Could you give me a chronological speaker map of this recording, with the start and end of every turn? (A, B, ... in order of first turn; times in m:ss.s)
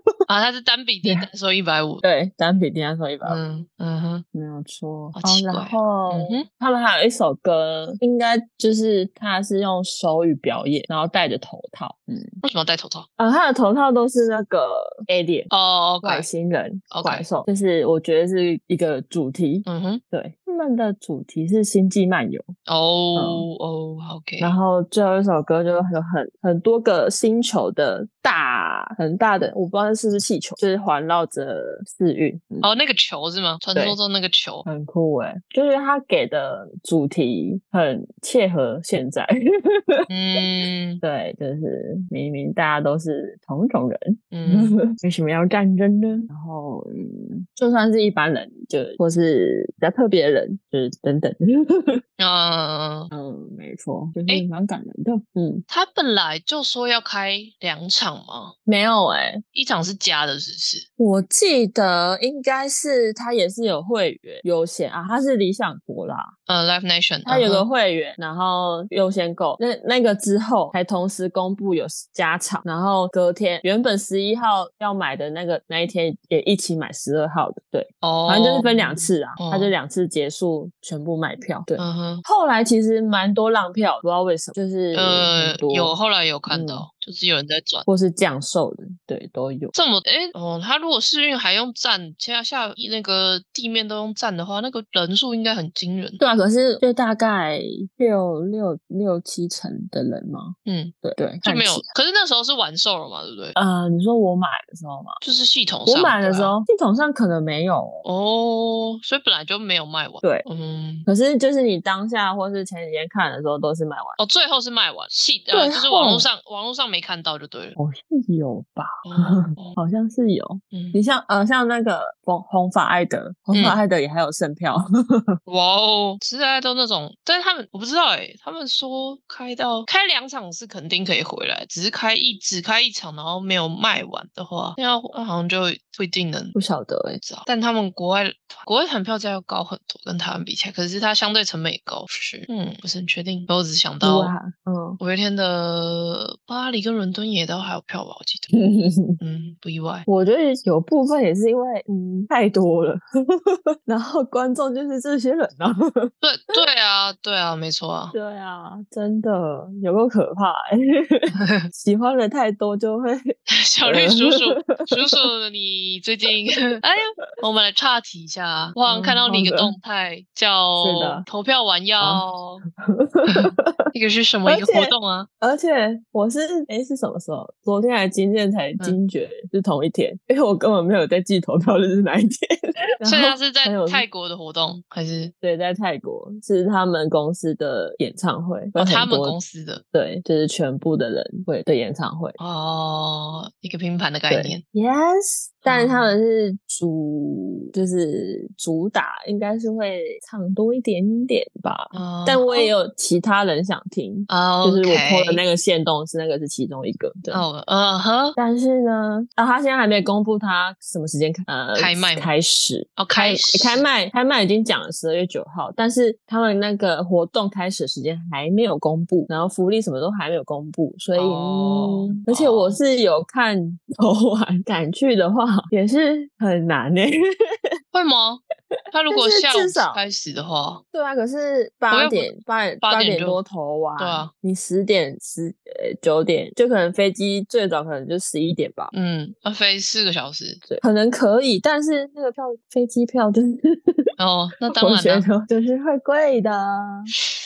0:00.3-0:02.0 A
0:02.0-0:03.4 B
0:03.2-0:04.2 A
0:04.3-0:12.3 B
0:05.2-0:06.5 A
0:12.4-0:13.1 A
0:13.2-0:15.5 B
0:15.5-0:16.3 A
0:16.0-0:22.5 B
0:16.9-0:17.3 A
0:19.7-0:20.0 A
0:22.7-0:24.6 A
0:23.2-0:23.5 B
0:24.4-0:32.7 B
0:32.6-0:34.7 A
0:34.6-0:40.1 B
0:40.1-0:41.0 A
0:41.0-0:52.0 B
0:44.3-0:44.8 A
0:52.2-0:53.1 A
0:53.1-0:55.6 B
0:55.7-0:58.6 A
0:58.7-0:59.4 B
0:59.5-1:00.9 A
1:01.0-1:06.3 B
1:06.5-1:07.7 A
1:07.2-1:26.0 B
1:18.0-1:19.7 A
1:21.8-1:22.2 A
1:24.9-1:27.9 A
1:26.5-1:26.9 B
1:27.9-1:29.7 B
1:29.7-1:36.2 A
1:36.2-1:41.8 B
1:40.6-1:43.6 A
1:43.6-1:45.2 B
1:45.2-1:46.6 A
1:45.9-1:48.0 B
1:48.0-1:51.1 A
1:51.1-1:54.2 B
1:54.2-1:57.8 A
1:55.5-1:56.3 B
1:57.8-2:05.4 B
1:59.0-1:59.8 A
2:00.7-2:01.0 A
2:03.5-2:03.8 A
2:05.5-2:16.6 A
2:16.6-2:17.2 B
2:17.2-2:24.4 A
2:24.0-2:25.0 B
2:25.0-2:28.6 A
2:28.5-2:29.2 B
2:29.2-2:30.1 A
2:30.1-2:36.6 B
2:36.2-2:38.2 A
2:38.1-2:45.2 B
2:41.3-2:41.7 A
2:43.5-2:52.6 A
2:48.9-2:49.7 B
2:50.8-2:51.2 B
2:52.8-2:53.9 B
2:53.3-2:55.3 A
2:54.5-3:04.0 B
3:03.0-3:05.3 A
3:05.4-3:09.4 B
3:08.8-3:09.8 A
3:09.9-3:12.4 B
3:12.4-3:14.6 A
3:14.3-3:27.4 B
3:15.6-3:16.2 A
3:21.9-3:22.7 A
3:24.3-3:25.4 A
3:27.3-3:28.4 A
3:28.4-3:47.2 B
3:31.7-3:32.3 A
3:33.0-3:33.8 A
3:41.2-3:42.8 A
3:47.9-3:50.8 A
3:49.1-3:50.0 B
3:50.9-3:58.9 B
3:51.9-3:52.3 A
3:52.8-3:53.4 A
3:54.0-3:54.3 A
3:58.9-4:00.7 A
4:00.7-4:04.1 B
4:04.2-4:05.3 A
4:04.7-4:07.1 B